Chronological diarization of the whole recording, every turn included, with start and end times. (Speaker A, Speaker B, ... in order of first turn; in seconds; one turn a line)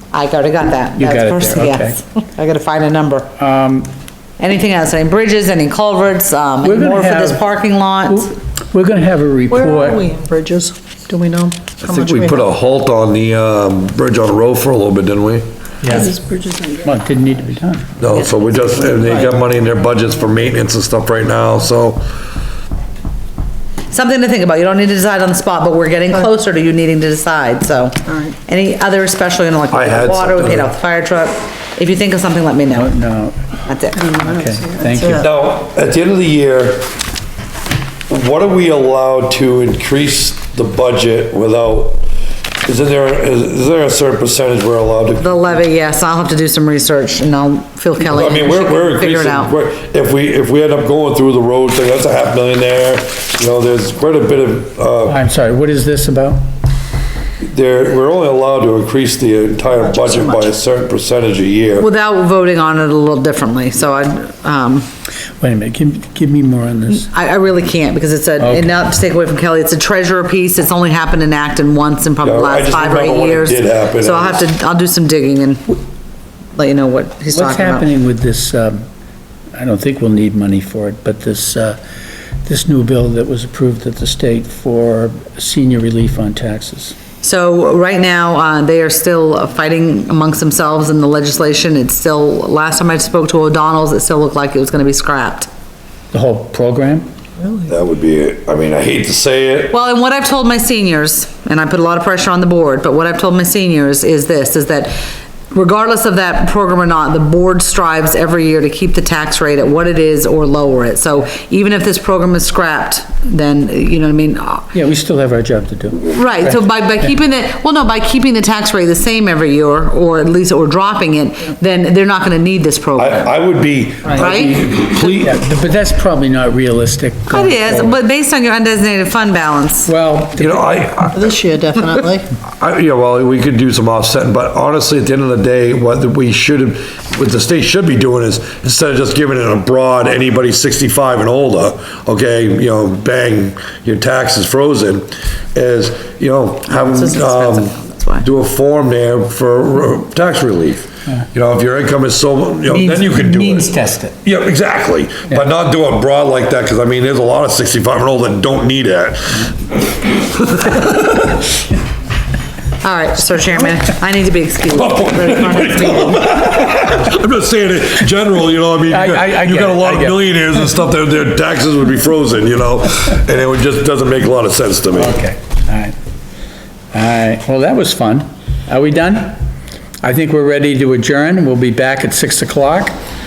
Speaker A: 0.1-3.3
Speaker B: 1.0-2.0
Speaker B: 3.4-3.9
Speaker A: 4.4-8.3
Speaker B: 6.6-7.4
Speaker B: 8.1-10.0
Speaker C: 9.5-12.5
Speaker D: 11.8-15.4
Speaker B: 15.8-16.1
Speaker C: 15.9-16.9
Speaker B: 16.8-17.9
Speaker D: 18.0-22.1
Speaker C: 18.7-19.3
Speaker A: 23.9-32.9
Speaker D: 29.7-30.7
Speaker B: 32.7-33.6
Speaker A: 33.7-34.1
Speaker C: 34.0-35.3
Speaker B: 34.2-35.2
Speaker D: 35.1-36.9
Speaker D: 38.1-42.0
Speaker D: 42.6-45.3
Speaker A: 45.2-49.5
Speaker D: 48.0-55.2
Speaker B: 55.0-56.4
Speaker D: 57.4-61.9
Speaker A: 61.8-64.9
Speaker B: 65.4-67.1
Speaker A: 67.0-75.8
Speaker B: 68.4-68.7
Speaker D: 72.2-74.5
Speaker A: 76.5-77.9
Speaker B: 77.3-78.8
Speaker B: 79.5-81.8
Speaker B: 82.4-86.9
Speaker A: 87.2-95.5
Speaker B: 96.1-97.1
Speaker D: 97.6-99.7
Speaker A: 99.7-105.0
Speaker A: 105.5-114.7
Speaker B: 114.7-116.6
Speaker A: 116.1-123.3
Speaker D: 123.0-125.4
Speaker A: 124.1-125.2
Speaker B: 124.2-128.0
Speaker A: 127.3-129.9
Speaker B: 129.8-130.7
Speaker D: 130.4-131.3
Speaker C: 131.1-132.3
Speaker D: 132.5-161.4
Speaker A: 146.7-148.2
Speaker B: 152.7-154.1
Speaker A: 162.8-166.4
Speaker D: 164.7-175.2
Speaker B: 168.9-170.3
Speaker B: 174.9-175.9
Speaker B: 176.9-179.4
Speaker B: 180.0-182.9